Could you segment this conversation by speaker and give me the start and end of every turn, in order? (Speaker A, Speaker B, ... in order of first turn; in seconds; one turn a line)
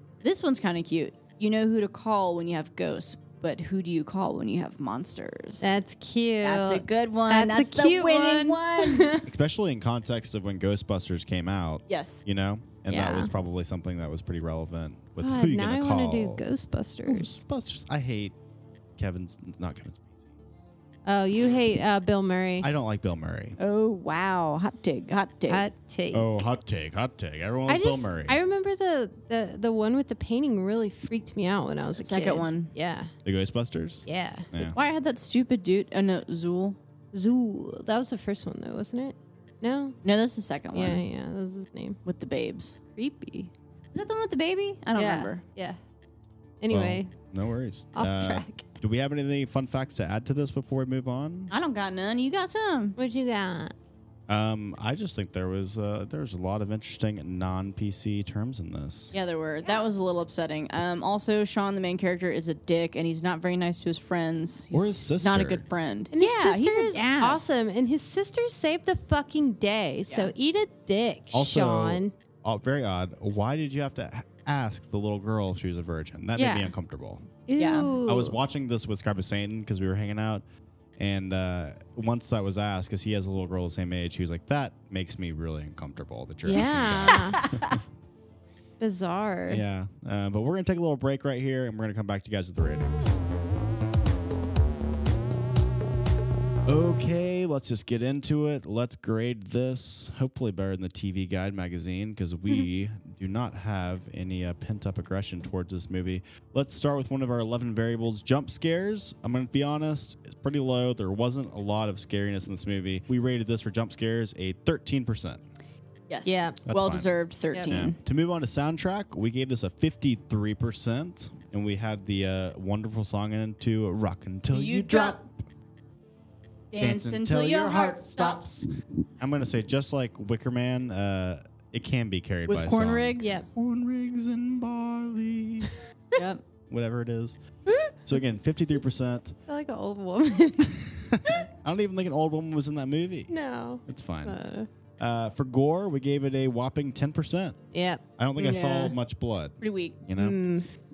Speaker A: 0.2-5.8
Speaker B: 5.6-9.2
Speaker A: 6.4-9.2
Speaker C: 9.2-16.4
Speaker A: 11.9-12.2
Speaker B: 12.9-13.3
Speaker B: 15.2-17.4
Speaker C: 17.1-18.3
Speaker C: 19.0-20.1
Speaker B: 21.1-22.7
Speaker C: 22.6-23.6
Speaker A: 23.6-25.6
Speaker B: 25.5-26.4
Speaker C: 26.1-28.4
Speaker B: 27.7-33.1
Speaker A: 31.9-32.7
Speaker C: 33.2-34.8
Speaker B: 34.0-34.5
Speaker A: 34.6-36.8
Speaker B: 37.1-40.0
Speaker A: 40.0-41.0
Speaker B: 40.7-42.0
Speaker A: 42.0-42.8
Speaker B: 43.0-43.5
Speaker A: 43.9-45.4
Speaker B: 45.0-45.8
Speaker B: 46.6-47.2
Speaker C: 46.7-51.5
Speaker B: 47.9-48.7
Speaker A: 51.5-53.0
Speaker B: 53.0-53.7
Speaker C: 54.3-59.1
Speaker A: 59.1-67.5
Speaker C: 64.7-65.6
Speaker B: 66.1-72.1
Speaker C: 71.3-77.2
Speaker B: 76.4-76.7
Speaker B: 77.5-78.3
Speaker A: 77.6-77.9
Speaker C: 78.0-80.4
Speaker C: 81.0-87.8
Speaker B: 86.4-87.4
Speaker A: 86.6-87.8
Speaker B: 88.8-89.6
Speaker C: 89.5-93.1
Speaker C: 96.7-115.4
Speaker A: 116.1-118.0
Speaker B: 116.2-116.6
Speaker C: 116.6-117.1
Speaker C: 117.7-125.3
Speaker A: 124.5-125.2
Speaker A: 126.7-128.4
Speaker C: 126.8-128.7
Speaker C: 129.2-135.7
Speaker A: 132.5-133.4
Speaker B: 133.2-133.5
Speaker A: 136.2-136.4
Speaker C: 136.7-137.4
Speaker C: 138.0-139.3
Speaker B: 139.5-140.8
Speaker C: 140.6-143.3
Speaker B: 143.3-144.7
Speaker C: 143.9-144.4
Speaker C: 145.0-147.6
Speaker B: 147.7-148.0
Speaker C: 148.2-150.4
Speaker A: 148.4-148.9
Speaker A: 149.6-150.0
Speaker B: 150.2-150.7